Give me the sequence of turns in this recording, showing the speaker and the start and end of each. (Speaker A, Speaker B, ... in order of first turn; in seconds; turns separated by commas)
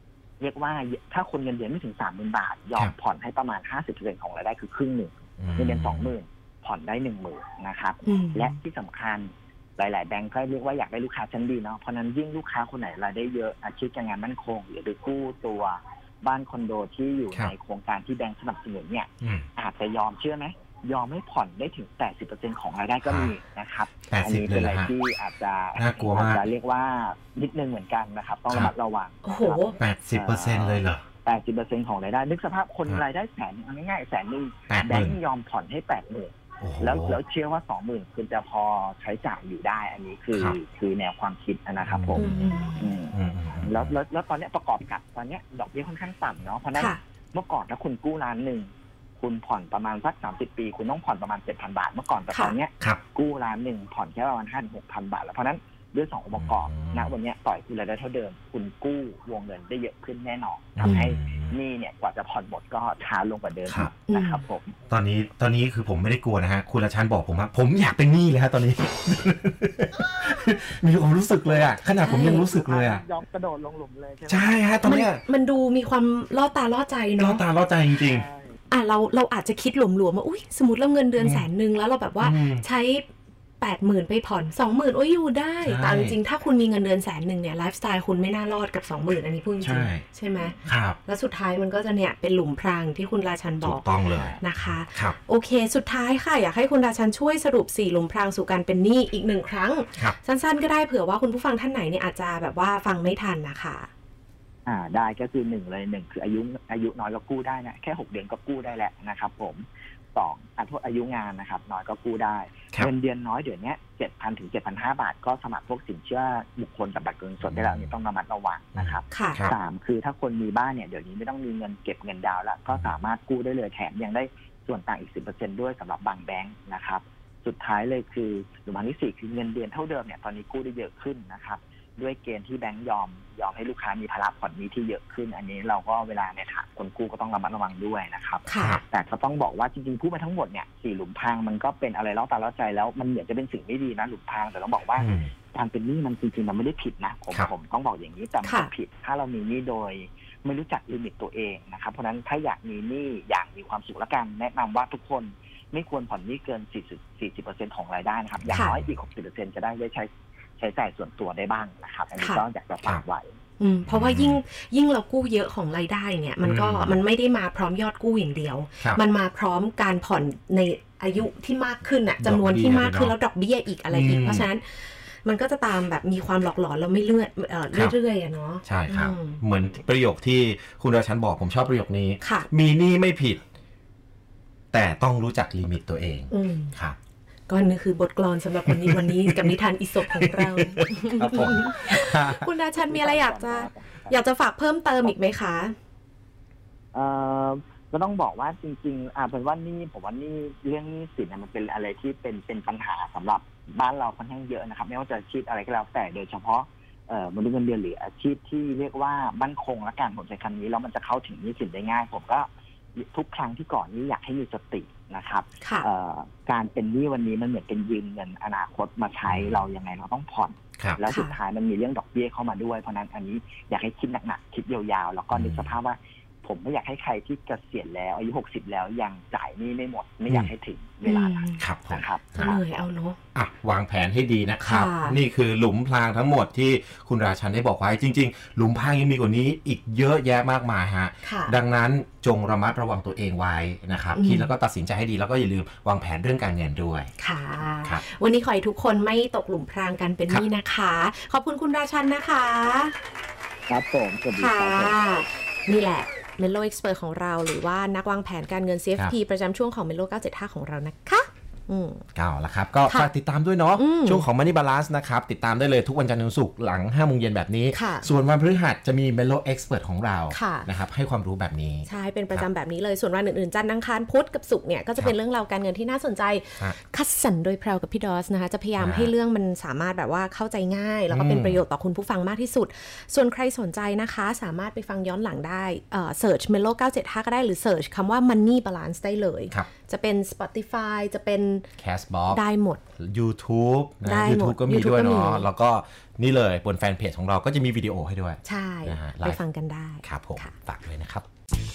Speaker A: 0.4-64.8, Speaker B: 5.4-6.1, Speaker C: 8.0-8.6, Speaker B: 19.2-19.5, Speaker B: 23.1-23.3, Speaker B: 24.1-24.9, Speaker B: 25.8-26.4, Speaker C: 29.2-29.8, Speaker B: 29.8-31.0, Speaker B: 34.7-35.2, Speaker B: 36.6-37.2, Speaker B: 41.9-43.9, Speaker C: 42.1-42.8, Speaker C: 46.8-47.0, Speaker B: 56.4-57.1, Speaker B: 60.8-61.6, Speaker B: 63.7-63.9, Speaker C: 64.1-64.4, Speaker B: 64.9-73.0, Speaker A: 71.5-71.8, Speaker C: 72.0-72.5, Speaker A: 72.3-74.9, Speaker B: 74.3-75.2, Speaker C: 74.8-77.4, Speaker B: 77.2-78.3, Speaker A: 77.9-78.6, Speaker C: 78.7-83.1, Speaker B: 81.2-81.5, Speaker B: 82.2-82.6, Speaker C: 83.6-103.9, Speaker B: 85.6-86.2, Speaker B: 89.6-90.0, Speaker B: 90.6-91.0, Speaker B: 93.6-95.2, Speaker A: 104.7-163.3, Speaker B: 117.4-117.9, Speaker B: 118.8-119.5, Speaker C: 119.1-119.5, Speaker B: 122.7-123.0, Speaker C: 138.5-138.8, Speaker B: 145.0-145.3, Speaker C: 148.4-148.7, Speaker B: 158.4-158.9, Speaker C: 158.5-158.8, Speaker C: 162.1-162.4, Speaker C: 163.6-179.4, Speaker B: 163.9-164.4, Speaker B: 166.4-167.0, Speaker B: 172.2-173.2, Speaker B: 173.9-174.5, Speaker B: 178.6-183.4, Speaker C: 182.2-182.5, Speaker B: 184.7-187.0, Speaker C: 186.3-186.8, Speaker C: 187.5-195.8, Speaker B: 188.7-192.5, Speaker A: 192.8-194.2, Speaker A: 196.9-232.6, Speaker C: 215.6-215.9, Speaker B: 219.3-219.6, Speaker C: 221.0-221.3, Speaker B: 225.3-225.8, Speaker C: 231.1-231.7, Speaker B: 231.6-232.5, Speaker C: 232.4-233.2, Speaker B: 233.3-247.1, Speaker C: 234.6-235.2, Speaker C: 241.2-241.6, Speaker C: 244.2-244.5, Speaker C: 247.2-252.9, Speaker A: 253.7-255.0, Speaker C: 254.4-262.0, Speaker B: 262.1-272.5, Speaker C: 263.8-264.2, Speaker C: 267.7-268.1, Speaker C: 270.3-270.7, Speaker C: 271.9-291.7, Speaker B: 278.8-279.1, Speaker B: 281.1-281.6, Speaker B: 291.8-292.4, Speaker C: 292.3-292.8, Speaker B: 293.0-299.4, Speaker C: 294.1-295.5, Speaker C: 298.4-300.5, Speaker B: 300.0-301.3